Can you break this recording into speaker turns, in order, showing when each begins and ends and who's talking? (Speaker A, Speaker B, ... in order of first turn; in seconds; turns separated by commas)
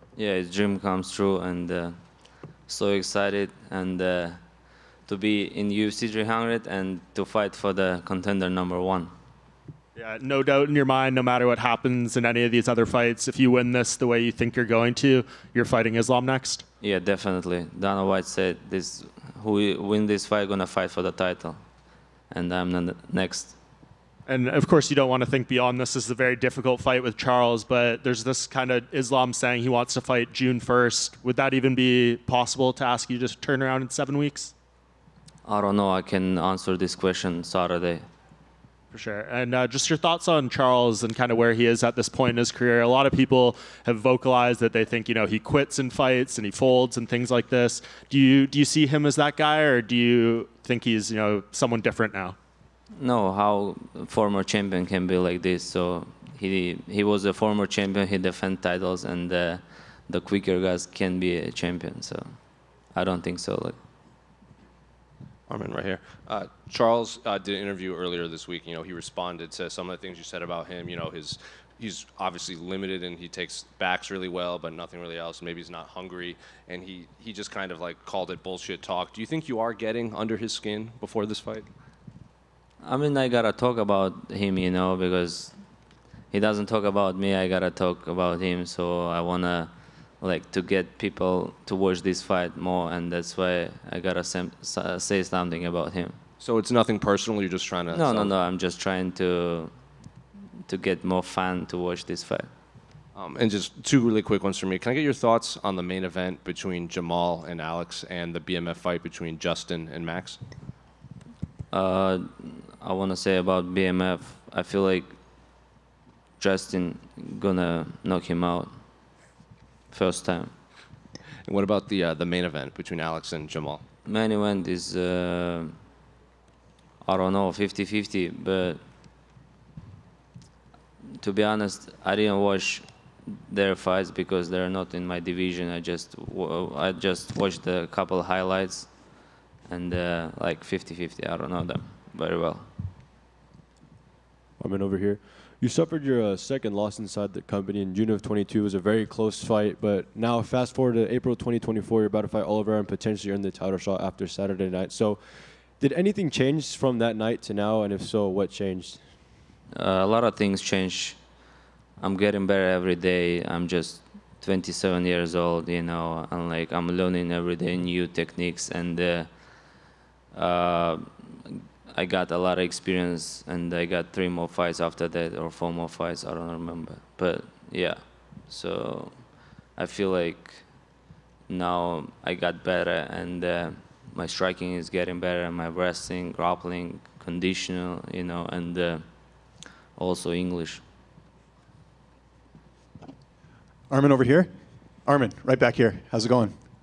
Speaker A: 0.2-2.0, Speaker A: 2.7-4.4, Speaker A: 5.0-9.1, Speaker B: 9.9-16.6, Speaker A: 16.8-21.6, Speaker A: 22.3-23.6, Speaker B: 24.3-34.5, Speaker A: 35.5-38.0, Speaker B: 38.9-52.4, Speaker A: 53.0-62.3, Speaker A: 62.9-63.8, Speaker C: 65.5-81.7, Speaker A: 82.8-85.5, Speaker A: 86.3-96.2, Speaker C: 96.4-98.3, Speaker A: 97.9-99.7, Speaker A: 100.7-102.5, Speaker C: 103.2-110.4, Speaker A: 111.7-115.1, Speaker A: 116.4-118.7, Speaker A: 119.9-120.5, Speaker C: 121.5-123.8, Speaker A: 124.0-125.7, Speaker A: 127.0-128.8, Speaker A: 131.2-142.7, Speaker D: 144.6-159.4, Speaker A: 159.7-161.2, Speaker A: 162.0-169.3, Speaker A: 170.3-180.7, Speaker A: 181.5-189.0, Speaker A: 190.0-190.8, Speaker E: 193.9-194.5, Speaker E: 195.1-196.5